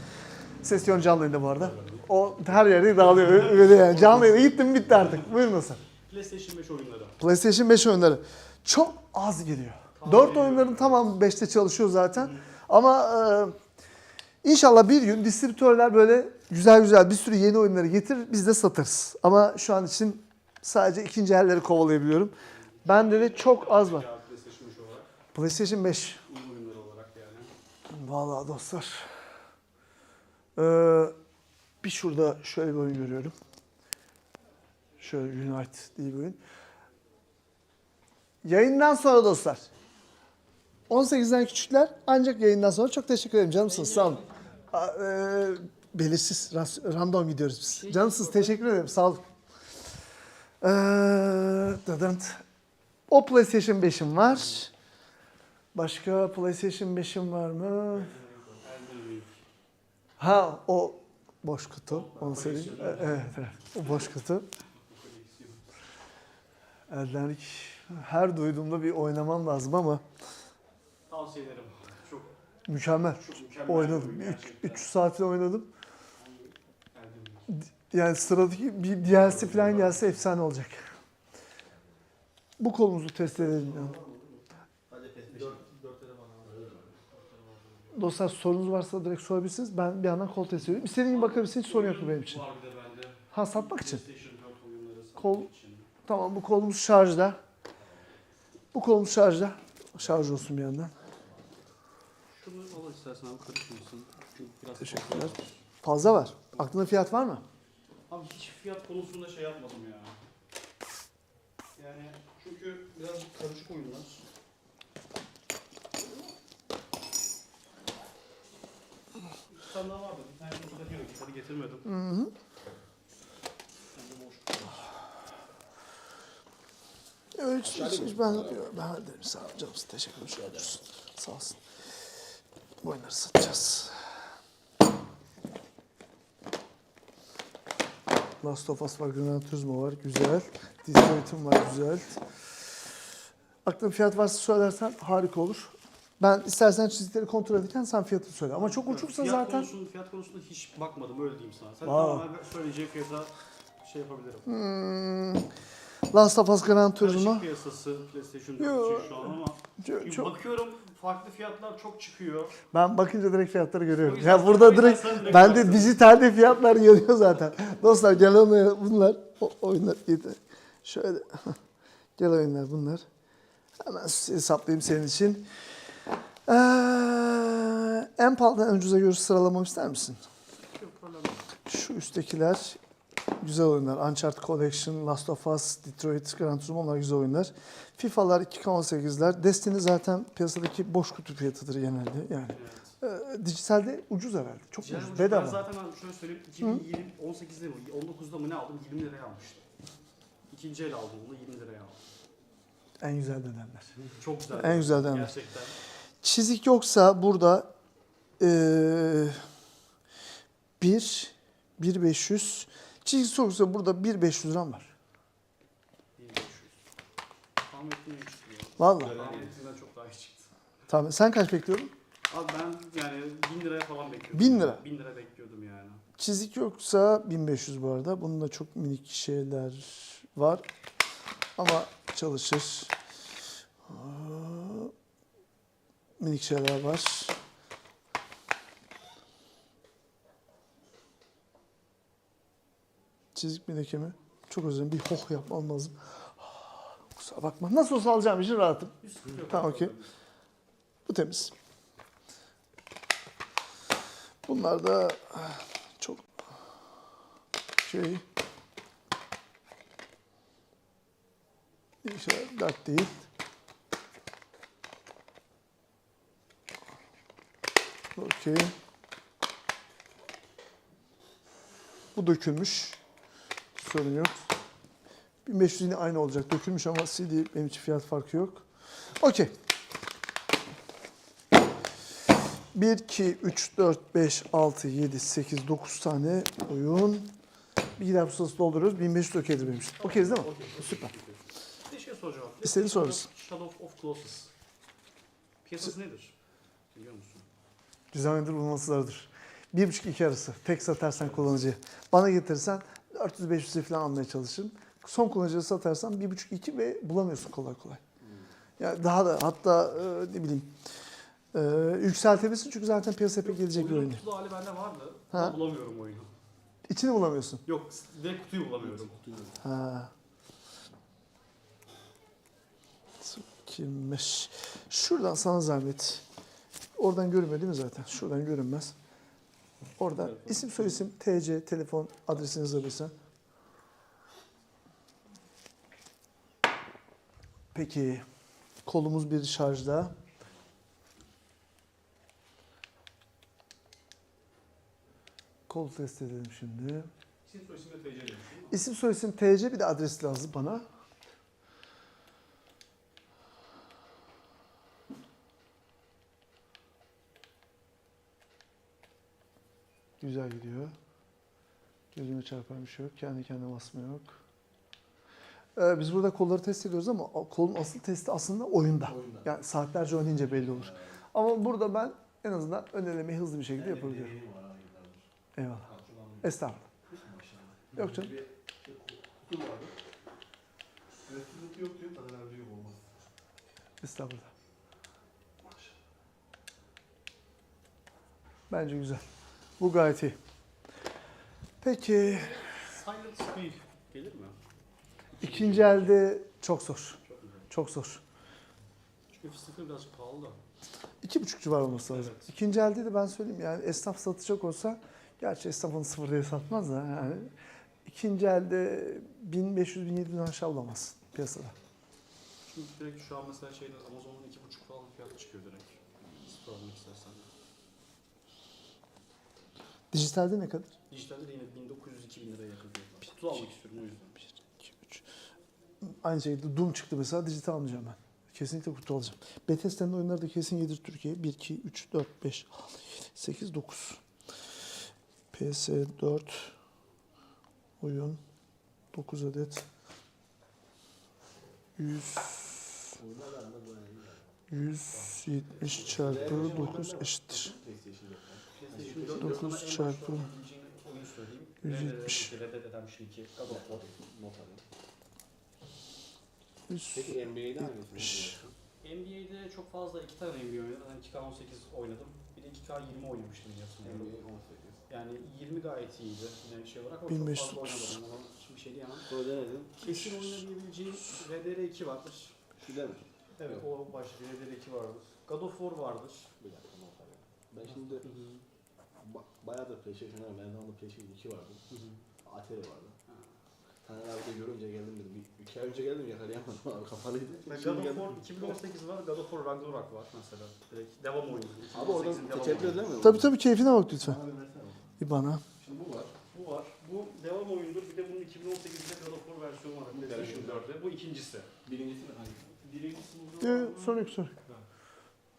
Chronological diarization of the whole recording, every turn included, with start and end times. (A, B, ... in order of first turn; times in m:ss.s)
0:00.6-0:05.8 A
0:01.6-0:05.3 B
0:06.1-0:07.2 B
0:07.2-0:13.6 A
0:10.0-0:11.2 B
0:14.4-0:24.1 A
0:22.5-0:25.1 B
0:25.3-0:26.2 A
0:26.2-0:27.5 B
0:27.9-0:29.1 A
0:30.6-0:31.2 A
0:31.8-0:33.3 A
0:35.0-0:36.4 A
0:38.4-0:39.7 A
0:40.9-0:49.2 A
0:43.7-0:44.2 B
0:47.7-0:48.6 B
0:50.6-0:52.4 A
0:53.1-0:54.7 A
0:55.7-0:58.1 A
0:58.0-0:58.6 C
0:58.1-0:59.4 B
1:00.2-1:04.5 A
1:01.9-1:04.0 B
1:02.2-1:03.1 C
1:04.8-1:05.6 B
1:06.9-1:10.0 A
1:11.1-1:12.3 B
1:12.7-1:15.7 A
1:13.1-1:14.9 B
1:16.2-1:17.5 B
1:17.5-1:20.9 A
1:19.1-1:20.1 C
1:19.4-1:20.0 B
1:22.6-1:24.0 A
1:23.2-1:25.7 C
1:25.3-1:28.1 B
1:26.4-1:27.0 C
1:27.9-1:32.4 A
1:30.9-1:35.9 B
1:33.3-1:34.0 A
1:35.2-1:35.5 A
1:36.0-1:37.4 A
1:38.7-1:40.9 A
1:42.3-1:45.6 B
1:44.8-1:47.4 A
1:48.1-1:50.2 B
1:51.8-1:54.2 B
1:59.5-2:01.9 B
2:01.9-2:02.3 A
2:04.0-2:04.9 B
2:07.4-2:11.6 A
2:07.6-2:08.7 C
2:10.4-2:10.8 C
2:12.8-2:14.0 A
2:18.4-2:22.2 A
2:23.6-2:29.7 A
2:28.5-2:34.5 B
2:31.8-2:32.3 A
2:34.5-2:35.5 A
2:36.1-2:37.4 A
2:37.0-2:42.6 B
2:38.6-2:40.3 A
2:42.7-2:51.6 A
2:44.0-2:46.0 B
2:52.2-2:53.0 A
2:53.8-2:55.5 A
2:56.5-3:00.2 A
3:00.7-3:01.5 B
3:01.7-3:02.8 A
3:03.4-3:15.7 A
3:12.5-3:13.0 B
3:14.8-3:19.6 B
3:20.5-3:22.0 B
3:23.0-3:23.9 A
3:24.2-3:25.8 B
3:24.5-3:25.3 A
3:26.2-3:27.7 A
3:28.4-3:29.4 A
3:30.8-3:34.9 A
3:36.2-3:36.8 B
3:37.6-3:40.5 B
3:38.8-3:39.2 A
3:39.0-3:39.6 C
3:40.9-3:41.9 A
3:42.3-3:46.0 B
3:44.3-3:44.8 A
3:46.2-3:50.7 A
3:51.6-3:53.0 A
3:53.8-3:54.9 A
3:56.2-3:57.4 A
4:03.4-4:08.9 A
4:09.0-4:10.1 B
4:09.5-4:09.9 A
4:11.1-4:11.5 A
4:14.5-4:16.3 A
4:17.8-4:18.2 A
4:22.0-4:23.2 A
4:28.2-4:28.7 A
4:32.2-4:33.0 A
4:33.8-4:34.4 A
4:35.5-4:38.6 A
4:39.2-4:39.5 A
4:42.7-4:47.3 A
4:48.0-4:51.1 A
4:50.0-4:54.5 B
4:52.6-4:53.3 A
4:55.6-4:56.3 B
4:56.9-4:57.5 B
4:58.1-5:08.0 A
5:01.0-5:01.5 B
5:08.2-5:08.5 C
5:08.8-5:10.7 A
5:11.5-5:14.2 A
5:13.4-5:16.3 B
5:15.3-5:15.6 A
5:16.9-5:17.6 A
5:17.7-5:19.2 B
5:18.8-5:19.6 C
5:19.6-5:20.1 A
5:23.2-5:26.2 A
5:27.0-5:28.9 A
5:30.0-5:33.1 A
5:30.2-5:30.7 C
5:37.7-5:38.2 A
5:38.8-5:40.2 A
5:45.7-5:47.1 A
5:47.4-5:48.8 B
5:48.7-5:50.8 A
6:00.2-6:00.9 A
6:02.1-6:04.4 A
6:05.8-6:14.3 A
6:09.0-6:09.5 C
6:10.5-6:11.2 C
6:13.7-6:15.3 C
6:15.6-6:15.9 A
6:15.8-6:19.9 C
6:16.4-6:16.8 A
6:17.9-6:18.3 A
6:21.2-6:23.2 C
6:24.0-6:24.5 A
6:25.6-6:25.9 C
6:28.7-6:29.2 A
6:29.8-6:30.4 A
6:31.8-6:32.7 A
6:32.6-6:34.6 B
6:35.4-6:36.2 B
6:35.4-6:37.2 A
6:37.3-6:37.7 B
6:37.7-6:38.2 A
6:39.3-6:40.6 B
6:41.2-6:47.5 A
6:41.9-6:42.5 B
6:48.1-6:51.7 A
6:52.7-6:57.5 B
7:00.1-7:00.9 A
7:01.1-7:04.4 B
7:04.8-7:05.2 A
7:06.0-7:12.7 A
7:13.4-7:14.2 A
7:15.5-7:16.7 A
7:18.0-7:18.4 A
7:19.1-7:19.9 A
7:22.0-7:22.9 A
7:23.2-7:24.5 C
7:24.7-7:27.7 A
7:25.1-7:27.0 B
7:26.0-7:29.7 C
7:28.8-7:34.0 B
7:29.3-7:30.5 A
7:31.8-7:32.5 A
7:33.6-7:34.8 C
7:36.9-7:38.6 A
7:37.1-7:38.6 C
7:39.0-7:44.3 B
7:44.0-7:45.0 C
7:45.1-7:49.3 B
7:47.3-7:48.1 A
7:49.3-7:50.0 C
7:50.0-7:52.6 B
7:52.8-7:53.8 C
7:53.6-7:56.5 B
7:56.6-7:58.3 C
7:58.2-7:58.6 B
7:59.2-8:01.8 C
8:01.9-8:02.2 B
8:02.4-8:03.2 C
8:04.0-8:08.8 C
8:07.7-8:13.3 B
8:11.9-8:13.5 C
8:13.2-8:14.4 A
8:14.2-8:15.1 C
8:15.2-8:15.6 A
8:15.8-8:16.3 C
8:16.5-8:21.7 B
8:20.1-8:20.8 C
8:21.8-8:22.8 C
8:22.8-8:24.8 B
8:23.6-8:24.5 A